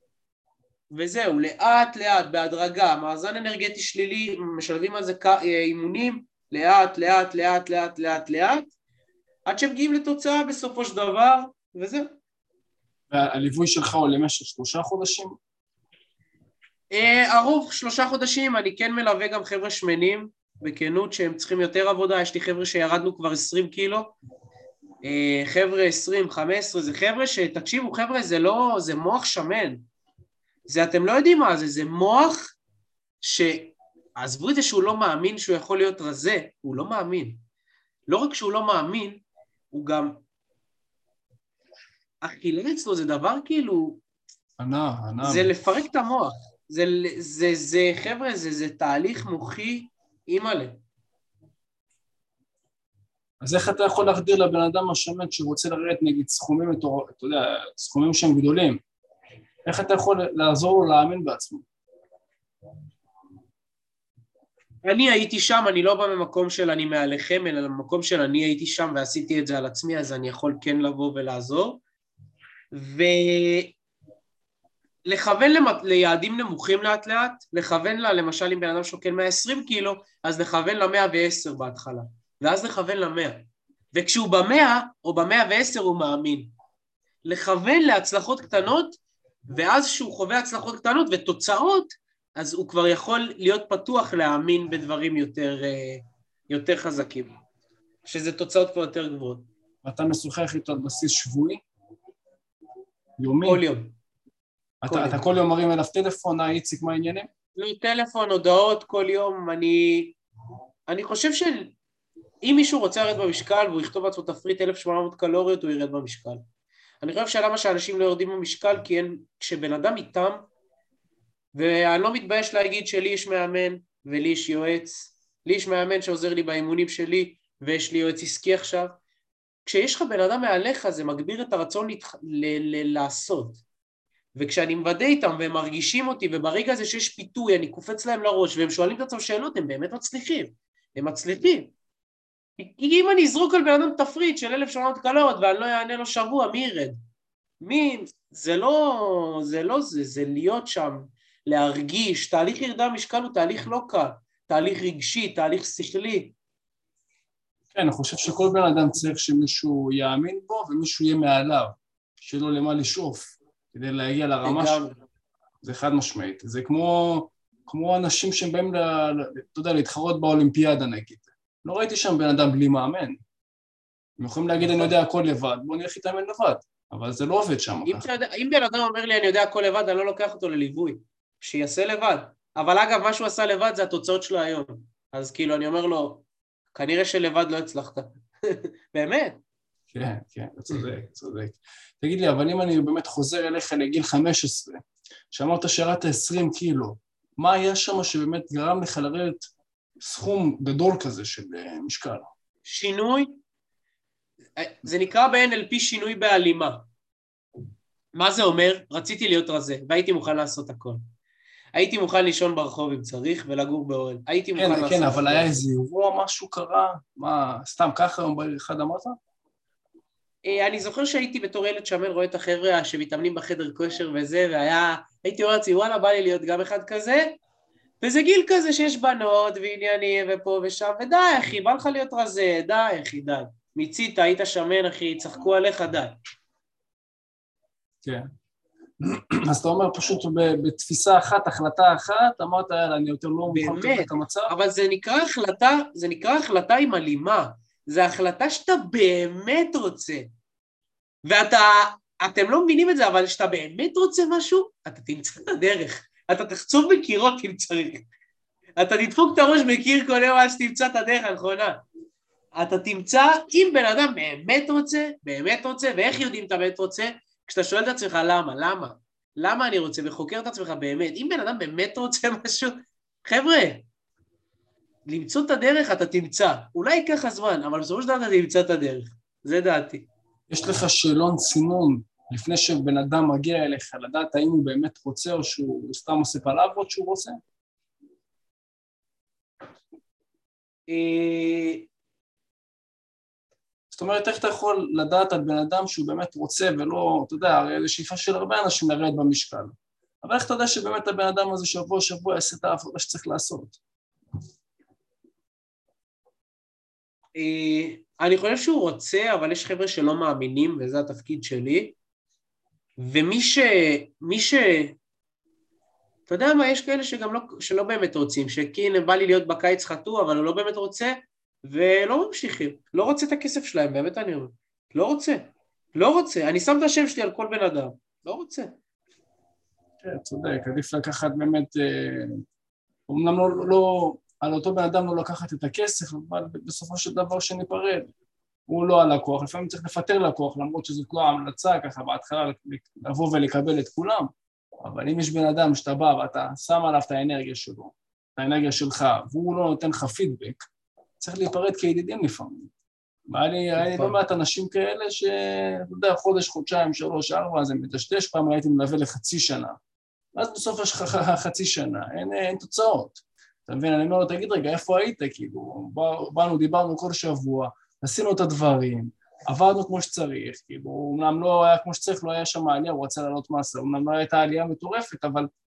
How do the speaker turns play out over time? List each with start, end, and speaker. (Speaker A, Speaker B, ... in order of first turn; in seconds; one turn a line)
Speaker A: 0.9-8.7
Speaker A: 9.5-12.1
Speaker B: 13.1-15.3
Speaker A: 16.9-24.1
Speaker A: 25.0-29.8
Speaker A: 30.7-32.5
Speaker A: 33.2-37.4
Speaker A: 38.1-39.2
Speaker A: 39.7-40.2
Speaker A: 42.2-44.0
Speaker B: 44.6-45.5
Speaker A: 45.2-50.8
Speaker B: 53.4-58.8
Speaker B: 59.7-61.6
Speaker A: 64.8-71.8
Speaker A: 72.7-73.7
Speaker A: 75.0-86.5
Speaker A: 87.3-97.3
Speaker A: 98.1-99.5
Speaker B: 99.8-101.6
Speaker B: 103.2-103.6
Speaker A: 103.4-104.0
Speaker B: 104.8-107.3
Speaker A: 104.9-105.2
Speaker A: 107.6-110.2
Speaker A: 110.9-111.7
Speaker A: 112.4-116.4
Speaker A: 117.0-120.5
Speaker A: 121.5-128.9
Speaker A: 129.7-133.6
Speaker A: 134.3-141.7
Speaker A: 142.6-147.0
Speaker A: 147.6-156.3
Speaker B: 157.7-164.8
Speaker A: 164.4-165.0
Speaker B: 165.6-173.2
Speaker B: 174.2-178.1
Speaker A: 174.6-174.9
Speaker A: 177.8-189.4
Speaker B: 189.9-202.3
Speaker A: 202.6-203.4
Speaker A: 204.6-206.9
Speaker A: 208.1-211.0
Speaker A: 211.7-215.6
Speaker B: 214.6-219.2
Speaker A: 220.4-227.4
Speaker A: 228.0-236.1
Speaker B: 239.0-244.5
Speaker A: 243.5-250.3
Speaker A: 251.2-258.0
Speaker A: 258.8-261.8
Speaker A: 262.6-273.9
Speaker A: 275.1-280.1
Speaker B: 280.5-287.4
Speaker A: 290.9-291.9
Speaker B: 293.9-303.8
Speaker A: 307.4-312.0
Speaker A: 313.0-315.0
Speaker A: 316.3-328.8
Speaker B: 330.0-332.4
Speaker B: 333.1-338.1
Speaker B: 338.7-344.3
Speaker B: 344.8-350.6
Speaker B: 351.2-352.7
Speaker B: 353.3-359.8
Speaker A: 353.8-354.1
Speaker B: 360.4-375.5